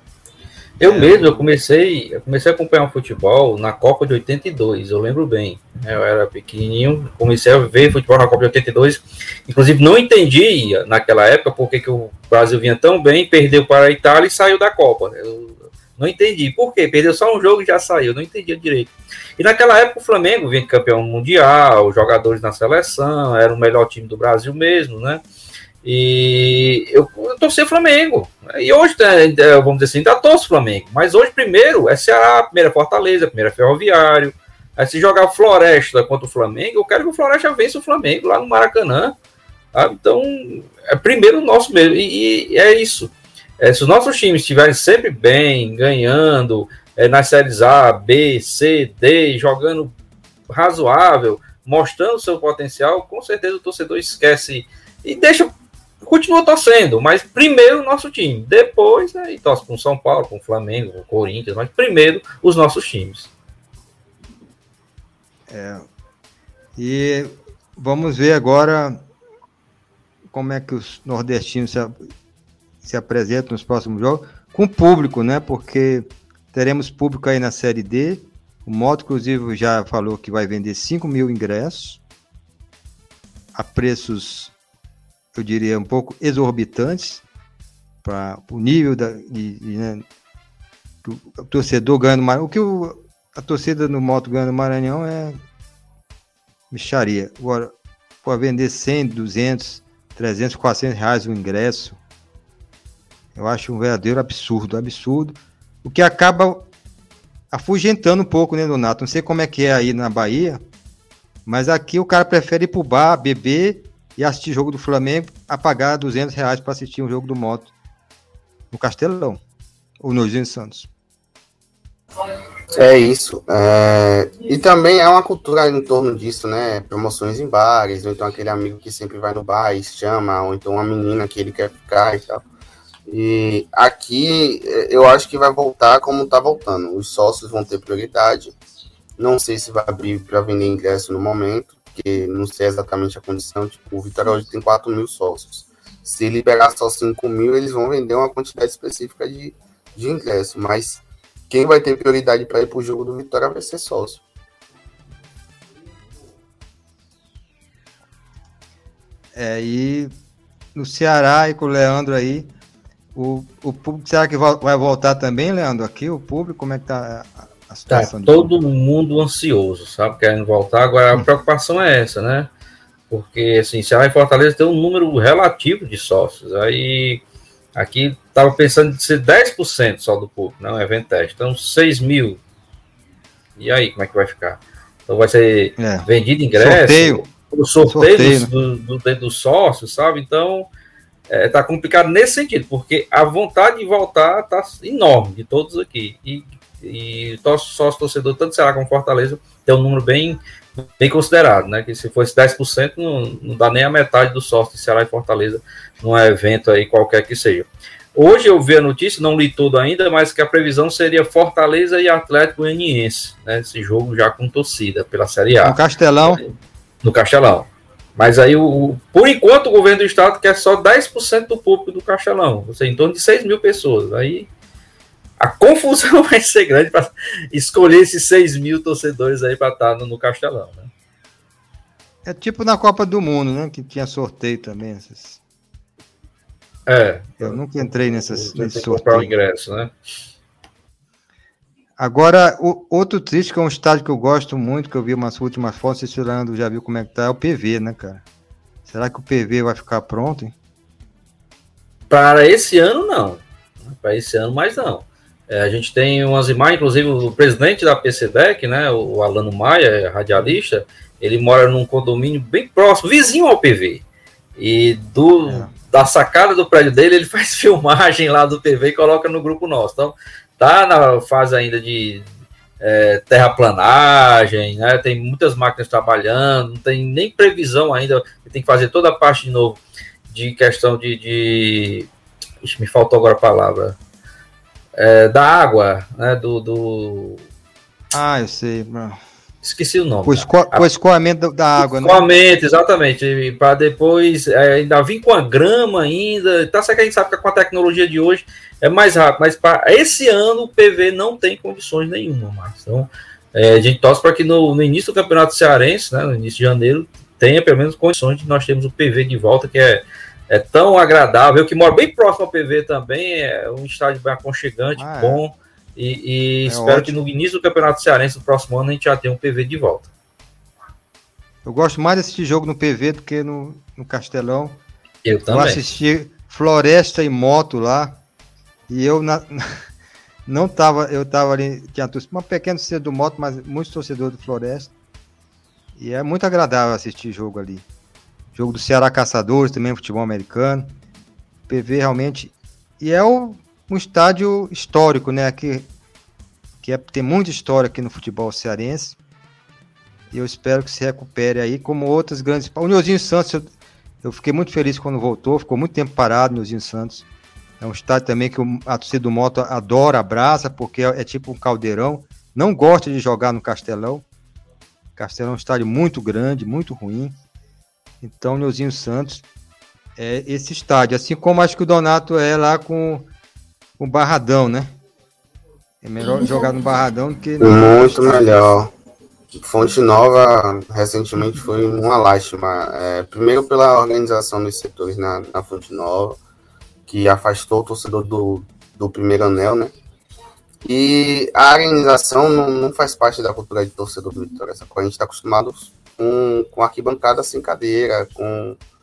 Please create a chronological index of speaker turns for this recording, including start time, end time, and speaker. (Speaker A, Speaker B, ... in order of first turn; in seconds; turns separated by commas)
Speaker A: 0.8-25.2, Speaker B: 0.9-1.4, Speaker A: 25.8-39.2, Speaker A: 39.7-49.9, Speaker A: 50.5-55.5, Speaker A: 56.0-63.3, Speaker C: 65.5-65.8, Speaker C: 66.8-69.0, Speaker C: 70.3-72.0, Speaker C: 72.8-82.0, Speaker C: 83.5-84.5, Speaker C: 85.3-87.2, Speaker C: 88.0-90.0, Speaker C: 91.0-95.4, Speaker C: 96.7-102.0, Speaker C: 103.3-106.7, Speaker C: 107.5-110.6, Speaker C: 111.5-117.7, Speaker C: 118.7-119.4, Speaker C: 120.0-120.9, Speaker B: 122.7-132.4, Speaker B: 133.1-138.6, Speaker B: 139.2-154.2, Speaker C: 159.3-160.1, Speaker C: 160.8-162.5, Speaker C: 163.2-168.6, Speaker A: 167.9-172.5, Speaker A: 173.1-177.2, Speaker A: 177.8-182.4, Speaker A: 183.6-190.7, Speaker C: 185.8-187.2, Speaker C: 187.9-188.5, Speaker A: 191.3-224.5, Speaker C: 215.6-216.4, Speaker A: 225.4-230.9, Speaker C: 232.2-235.4, Speaker A: 236.9-239.9, Speaker C: 237.4-239.3, Speaker C: 242.0-248.2, Speaker C: 248.9-250.5, Speaker A: 252.1-264.0, Speaker A: 264.6-272.3, Speaker C: 265.5-265.7, Speaker A: 272.8-282.1, Speaker A: 282.6-284.0, Speaker A: 285.0-287.4, Speaker C: 288.1-289.2, Speaker A: 289.6-290.9, Speaker C: 290.3-292.2, Speaker A: 291.8-320.1, Speaker C: 315.0-315.4, Speaker C: 316.7-317.1, Speaker C: 321.6-324.8, Speaker A: 325.2-325.8, Speaker C: 325.5-328.2, Speaker C: 328.9-329.7, Speaker C: 330.5-334.9, Speaker C: 336.0-337.9, Speaker C: 338.5-340.9, Speaker C: 341.7-345.9, Speaker C: 346.8-349.2, Speaker C: 350.3-353.7, Speaker C: 354.2-357.2, Speaker C: 357.8-364.3, Speaker C: 365.2-367.4, Speaker C: 368.2-369.5, Speaker C: 370.2-373.3, Speaker C: 374.0-374.9, Speaker C: 376.0-378.6, Speaker B: 377.6-378.9, Speaker B: 379.6-386.4, Speaker B: 387.1-389.9, Speaker B: 390.8-398.8